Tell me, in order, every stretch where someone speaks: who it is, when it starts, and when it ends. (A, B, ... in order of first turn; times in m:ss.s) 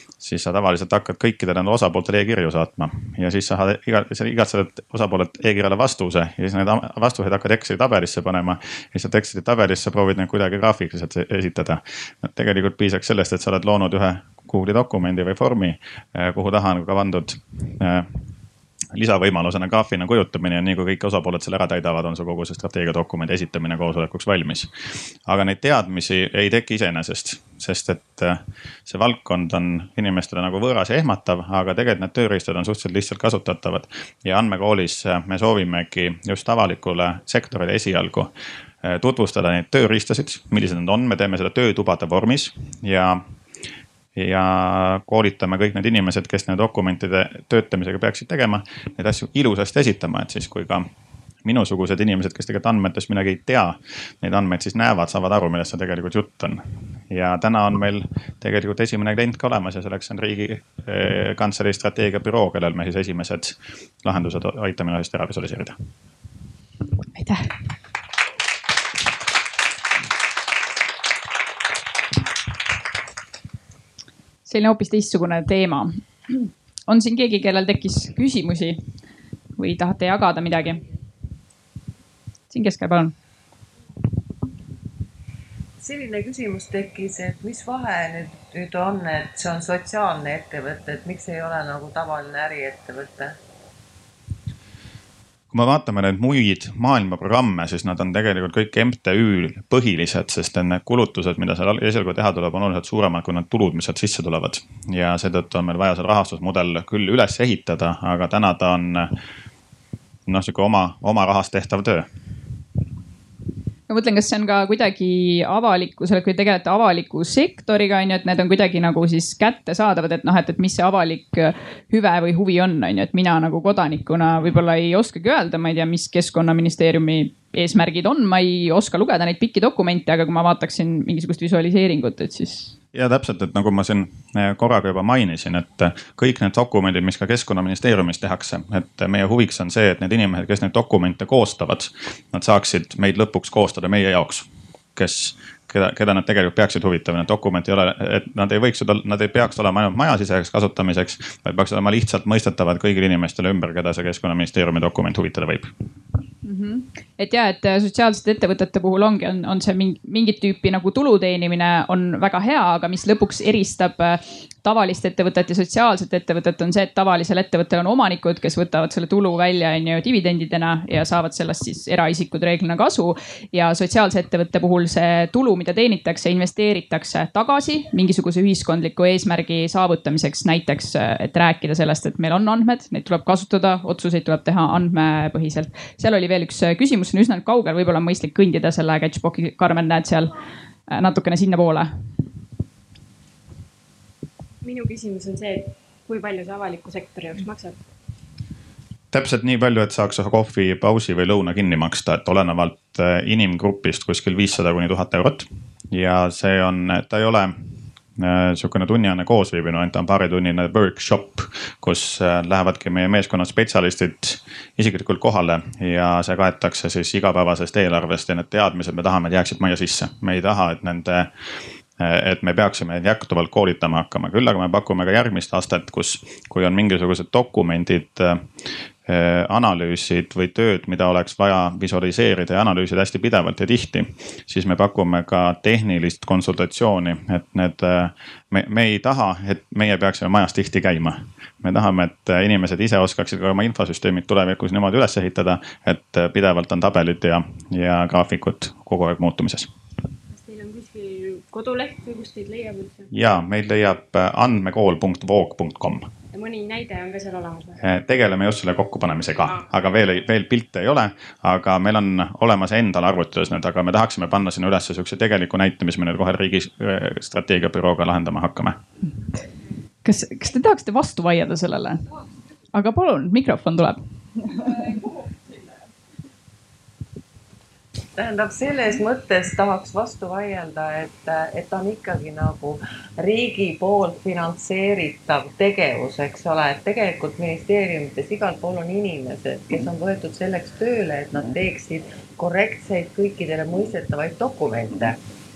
0:00.2-0:18.1 A
0:18.9-0:24.7 A
0:25.3-0:38.3 A
0:38.8-0:43.2 A
0:44.2-0:50.9 A
0:51.4-1:05.8 A
1:07.2-1:07.5 B
1:14.5-1:18.8 B
1:19.6-1:20.8 B
1:22.5-1:23.1 B
1:25.8-1:33.3 C
1:35.5-1:49.2 A
1:50.3-1:52.1 A
1:53.9-2:12.7 B
2:12.9-2:35.7 A
2:36.4-3:10.3 B
3:10.9-3:11.9 B
3:14.6-3:17.8 D
3:19.1-3:27.6 A
3:28.2-3:41.3 A
3:42.0-3:48.5 A
3:49.1-4:09.7 A
4:10.3-4:13.1 D
4:13.1-4:16.1 A
4:16.3-4:17.8 D
4:17.8-4:28.8 A
4:30.0-4:32.0 B
4:32.7-4:34.0 B
4:38.2-4:55.2 C